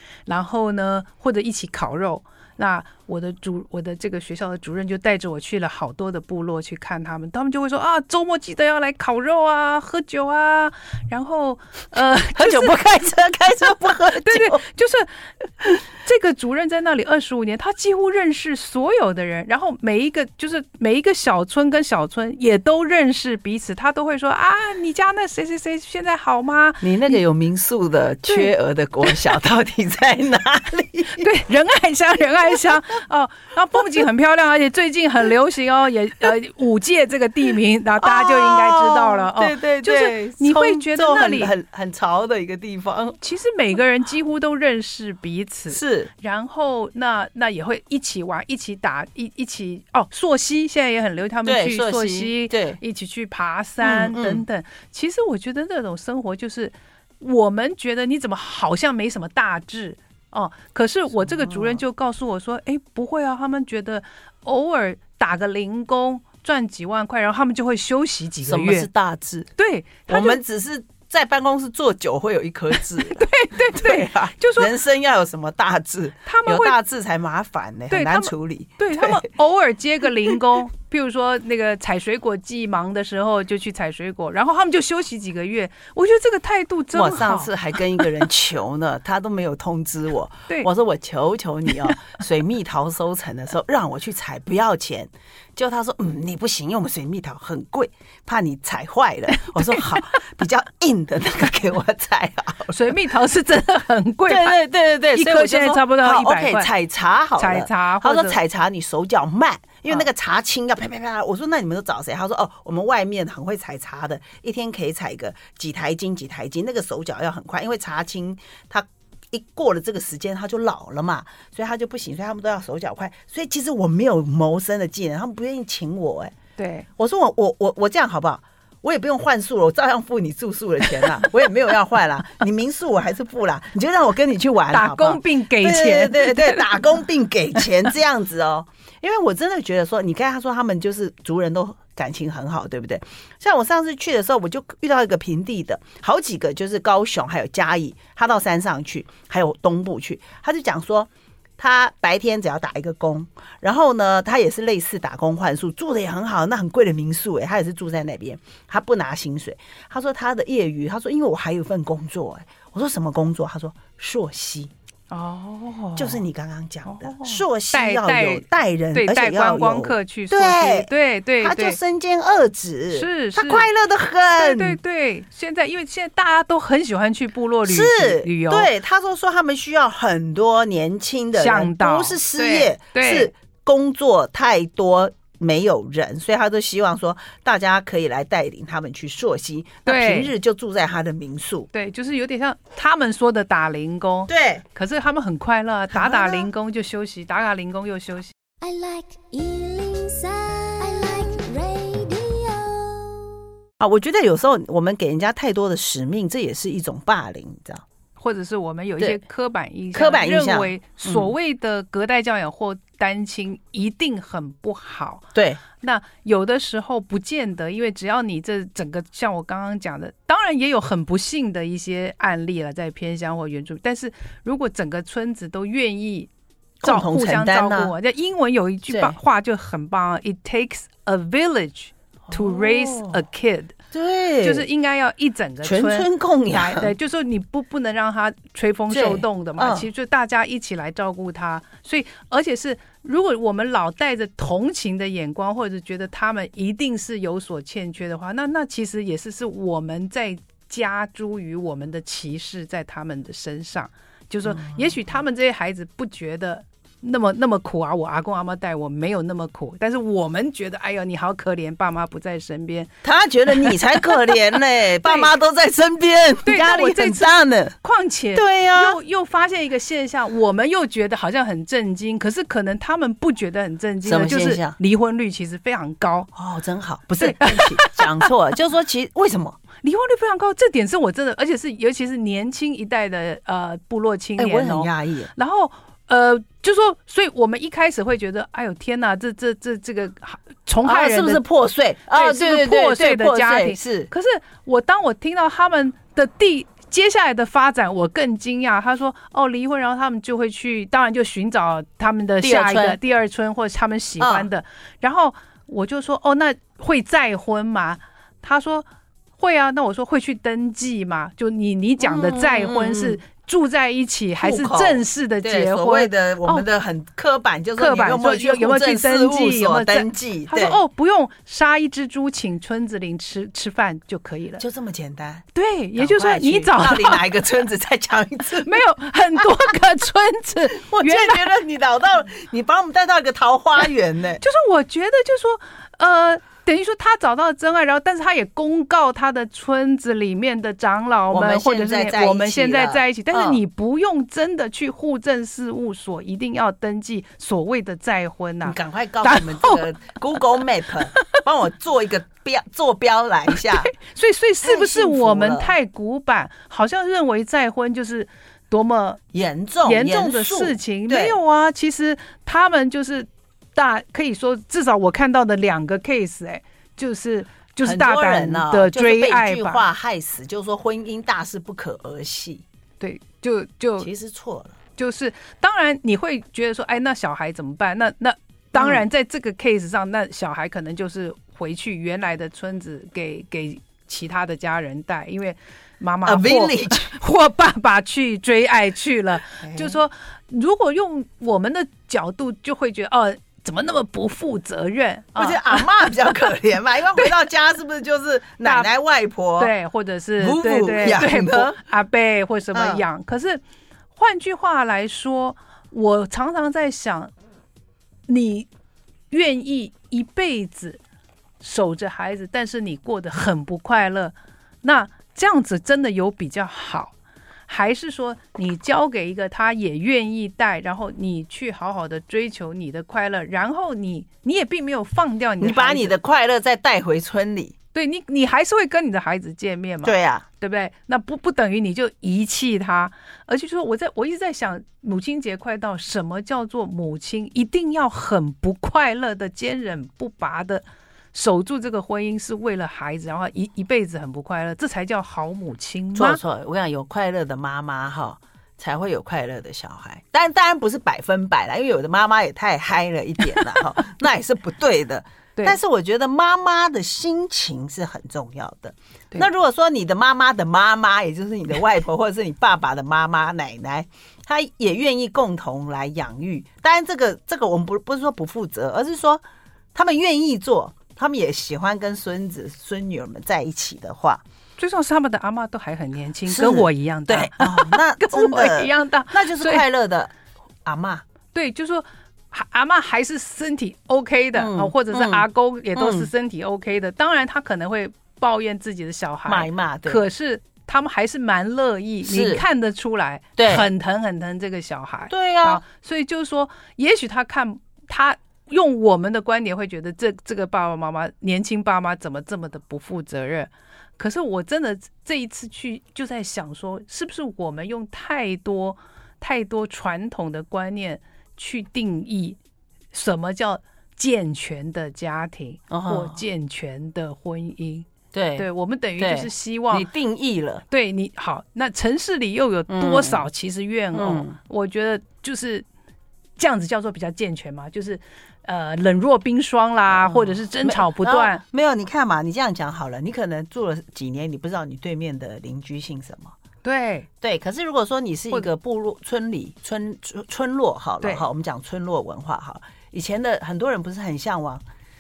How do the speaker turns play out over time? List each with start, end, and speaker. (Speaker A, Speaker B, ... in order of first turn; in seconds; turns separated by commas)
Speaker A: 0.3-12.8, Speaker B: 12.3-14.6, Speaker A: 14.2-27.2, Speaker B: 26.8-31.3, Speaker A: 28.3-28.5, Speaker A: 29.0-29.4, Speaker A: 31.1-41.5, Speaker B: 38.0-43.2, Speaker A: 43.2-68.9, Speaker B: 45.7-46.1, Speaker B: 51.4-52.8, Speaker B: 53.8-54.4, Speaker B: 61.2-61.8, Speaker B: 68.4-69.5, Speaker A: 69.6-70.4, Speaker B: 70.1-79.3, Speaker A: 72.7-74.7, Speaker A: 76.2-76.8, Speaker A: 77.9-88.0, Speaker B: 86.9-102.9, Speaker A: 99.6-100.0, Speaker A: 102.7-104.6, Speaker B: 104.3-126.3, Speaker A: 105.1-106.7, Speaker A: 107.4-108.4, Speaker A: 126.6-126.9, Speaker B: 127.0-164.7, Speaker A: 134.7-136.9, Speaker A: 165.1-166.2, Speaker B: 165.9-170.9, Speaker A: 166.8-171.8, Speaker B: 171.4-174.8, Speaker A: 172.9-173.7, Speaker A: 174.4-178.7, Speaker B: 177.7-191.7, Speaker A: 181.3-183.3, Speaker A: 189.8-190.3, Speaker A: 191.7-198.3, Speaker B: 194.3-194.6, Speaker B: 196.0-196.4, Speaker C: 198.6-203.3, Speaker B: 203.8-207.8, Speaker A: 208.2-226.3, Speaker B: 209.9-211.3, Speaker B: 215.3-215.6, Speaker B: 226.8-227.9, Speaker A: 226.8-233.8, Speaker B: 228.9-229.2, Speaker B: 232.3-233.2, Speaker B: 233.9-234.7, Speaker A: 234.4-262.9, Speaker B: 235.6-236.9, Speaker B: 238.9-239.9, Speaker B: 254.5-254.8, Speaker B: 263.0-267.7, Speaker A: 263.5-264.4, Speaker A: 265.0-265.3, Speaker A: 266.4-276.3, Speaker B: 268.3-269.0, Speaker B: 274.0-274.7, Speaker B: 276.3-279.6, Speaker A: 277.2-278.3, Speaker A: 279.8-291.4, Speaker B: 284.4-285.3, Speaker B: 290.8-294.1, Speaker A: 292.1-308.9, Speaker B: 302.4-303.0, Speaker B: 304.2-304.5, Speaker A: 309.4-316.6, Speaker B: 312.0-313.2, Speaker B: 314.4-320.8, Speaker A: 317.8-324.6, Speaker B: 324.6-325.4, Speaker A: 325.5-327.2, Speaker B: 325.9-328.8, Speaker A: 328.6-331.5, Speaker B: 330.7-334.4, Speaker A: 334.4-349.8, Speaker B: 341.3-343.6, Speaker B: 348.6-353.9, Speaker A: 353.5-359.2, Speaker B: 354.6-355.7, Speaker B: 359.3-361.4, Speaker A: 359.8-369.8, Speaker B: 367.8-372.6, Speaker A: 373.0-374.1, Speaker B: 374.0-374.8, Speaker A: 375.0-395.8, Speaker B: 378.8-379.0, Speaker B: 386.2-387.1, Speaker B: 389.6-389.9, Speaker B: 395.4-399.7, Speaker A: 398.6-398.9, Speaker A: 399.6-403.6, Speaker B: 400.4-401.8, Speaker B: 402.7-403.0, Speaker A: 404.1-407.3, Speaker A: 408.3-408.7, Speaker A: 409.3-411.0, Speaker A: 411.6-417.1, Speaker A: 417.7-426.1, Speaker B: 425.6-427.8, Speaker A: 427.9-446.4, Speaker B: 430.0-430.4, Speaker B: 446.1-469.4, Speaker B: 469.9-474.4, Speaker A: 474.8-479.8, Speaker B: 476.5-480.3, Speaker B: 480.8-481.2, Speaker A: 481.5-512.6, Speaker B: 484.6-486.3, Speaker B: 489.5-490.2, Speaker B: 492.2-492.6, Speaker B: 493.6-493.9, Speaker B: 495.3-495.8, Speaker A: 513.1-520.1, Speaker B: 515.9-516.4, Speaker B: 518.3-518.7, Speaker B: 519.2-520.8, Speaker A: 520.9-525.8, Speaker B: 522.9-523.5, Speaker B: 524.1-524.6, Speaker A: 526.6-531.6, Speaker B: 530.1-536.5, Speaker A: 536.8-537.3, Speaker B: 537.4-544.8